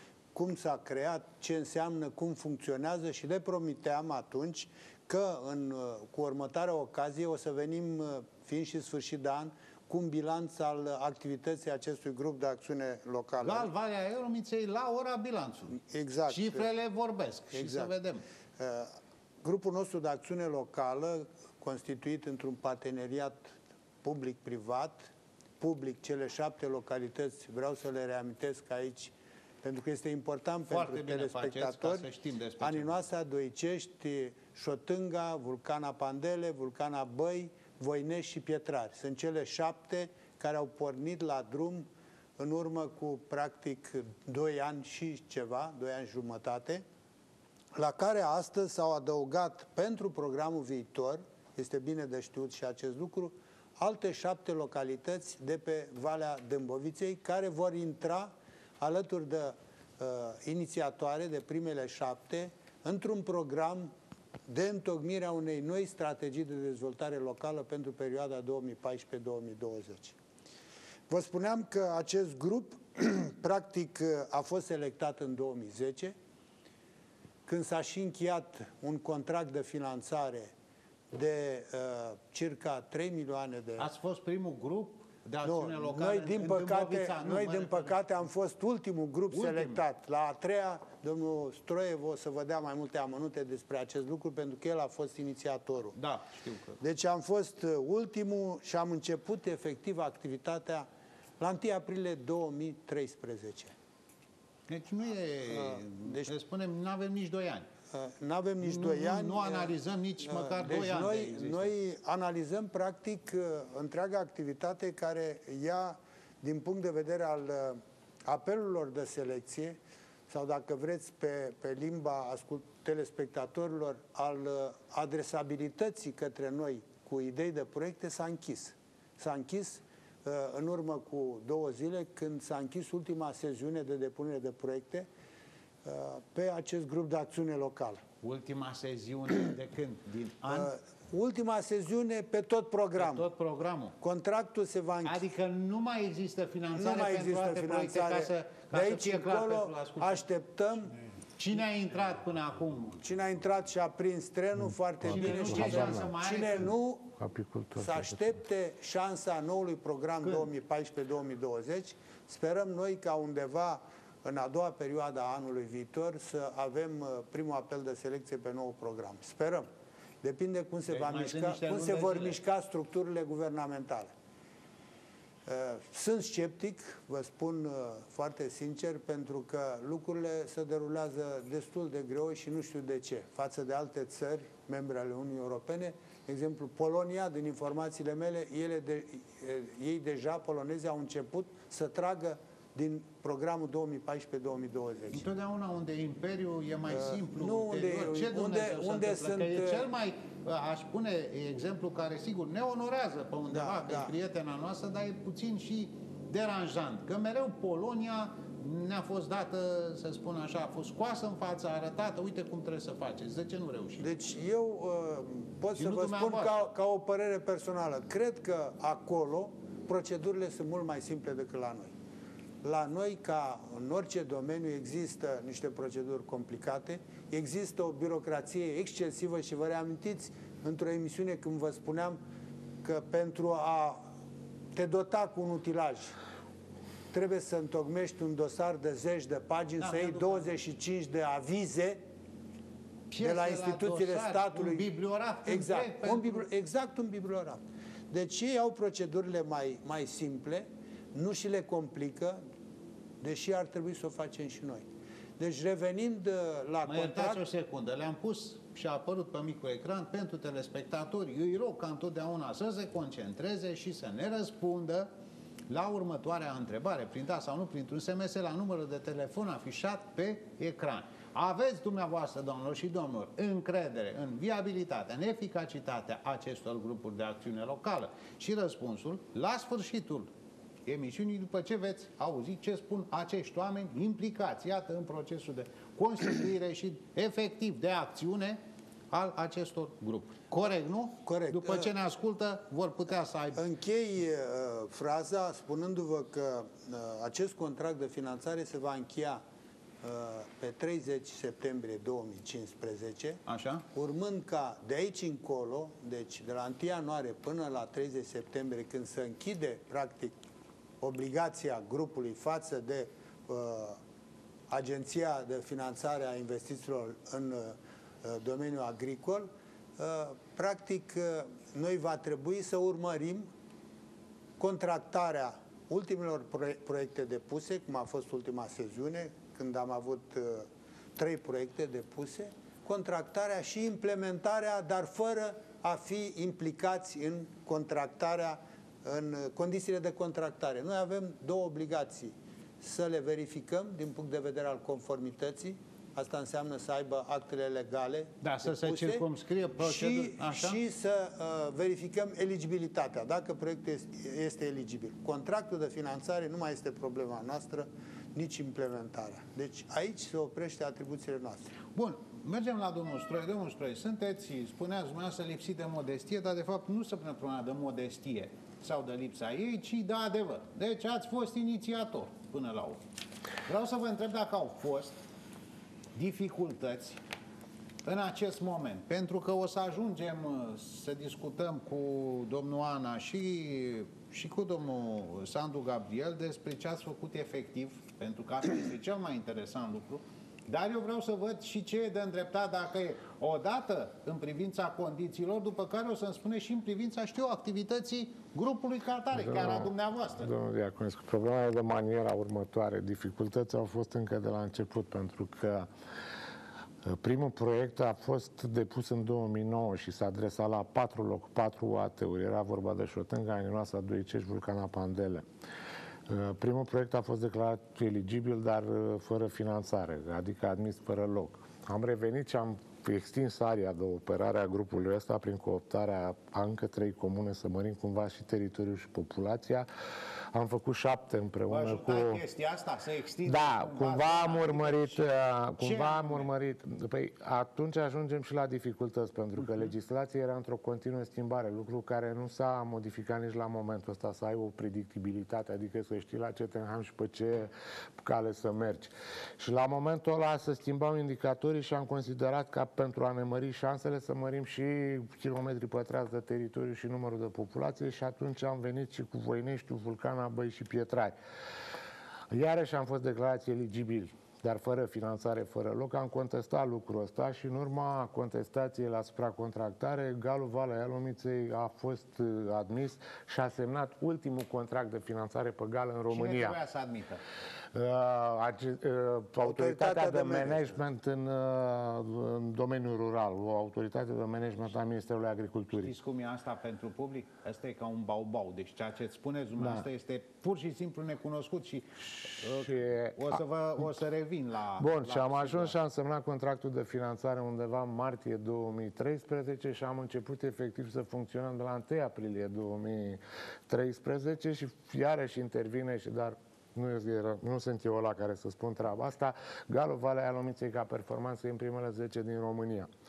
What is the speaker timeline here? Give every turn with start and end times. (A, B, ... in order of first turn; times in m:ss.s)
0:00.3-0:13.7 A
0:13.4-0:18.2 B
0:15.7-0:16.7 A
0:17.5-0:17.9 A
0:18.6-0:32.1 A
0:30.7-0:33.0 B
0:32.6-0:46.8 A
0:47.8-1:03.9 A
1:04.5-1:10.2 A
1:11.1-1:16.1 A
1:17.4-1:20.5 A
1:21.1-1:23.9 A
1:23.8-1:27.9 B
1:25.4-1:36.0 A
1:29.3-1:29.8 B
1:36.0-1:36.8 B
1:36.8-1:40.9 A
1:41.4-1:43.7 A
1:44.7-1:47.7 B
1:45.5-1:46.3 A
1:47.9-2:15.1 A
1:48.6-1:51.7 B
2:15.8-2:18.0 A
2:18.2-2:20.7 B
2:20.5-2:23.3 A
2:22.9-2:24.0 B
2:24.0-2:25.2 A
2:25.0-2:30.2 B
2:26.7-2:30.9 A
2:31.4-2:33.0 B
2:33.0-2:37.2 A
2:35.0-2:36.1 C
2:35.0-2:36.7 B
2:37.2-2:38.3 C
2:37.8-2:49.7 A
2:50.2-2:54.1 A
2:50.9-2:52.4 B
2:55.4-3:15.2 A
3:15.1-3:34.0 B
3:16.9-3:19.9 A
3:23.5-3:24.1 A
3:34.0-3:41.9 A
3:35.7-3:36.5 B
3:42.6-3:52.2 A
3:52.8-3:54.0 A
3:54.7-3:56.2 A
3:57.1-4:02.0 A
3:59.8-4:00.5 B
4:03.1-4:06.4 B
4:03.2-4:04.9 A
4:05.4-4:12.4 A
4:13.2-4:14.9 A
4:15.4-4:17.4 A
4:16.8-4:25.1 B
4:25.7-4:40.3 B
4:40.8-4:48.6 B
4:49.1-4:53.6 B
4:51.2-4:51.9 A
4:53.6-4:59.4 A
5:00.0-5:03.4 A
5:03.4-5:03.8 B
5:03.9-5:10.4 A
5:11.0-5:14.0 A
5:14.7-5:23.5 A
5:24.6-5:49.2 A
5:48.4-5:50.8 B
5:49.8-6:01.7 A
6:01.9-6:13.0 B
6:13.6-6:15.2 B
6:16.1-6:17.2 B
6:18.0-6:40.5 B
6:39.3-6:45.9 C
6:47.0-6:55.4 C
6:56.3-7:09.9 C
7:10.5-7:12.4 C
7:11.7-7:15.2 B
7:13.4-7:41.3 C
7:15.8-7:16.5 B
7:42.5-7:56.8 C
7:56.3-7:57.4 B
7:57.9-8:06.1 C
7:59.6-8:01.0 A
8:06.0-8:16.0 B
8:09.8-8:10.1 C
8:12.6-8:13.6 C
8:15.0-8:33.1 C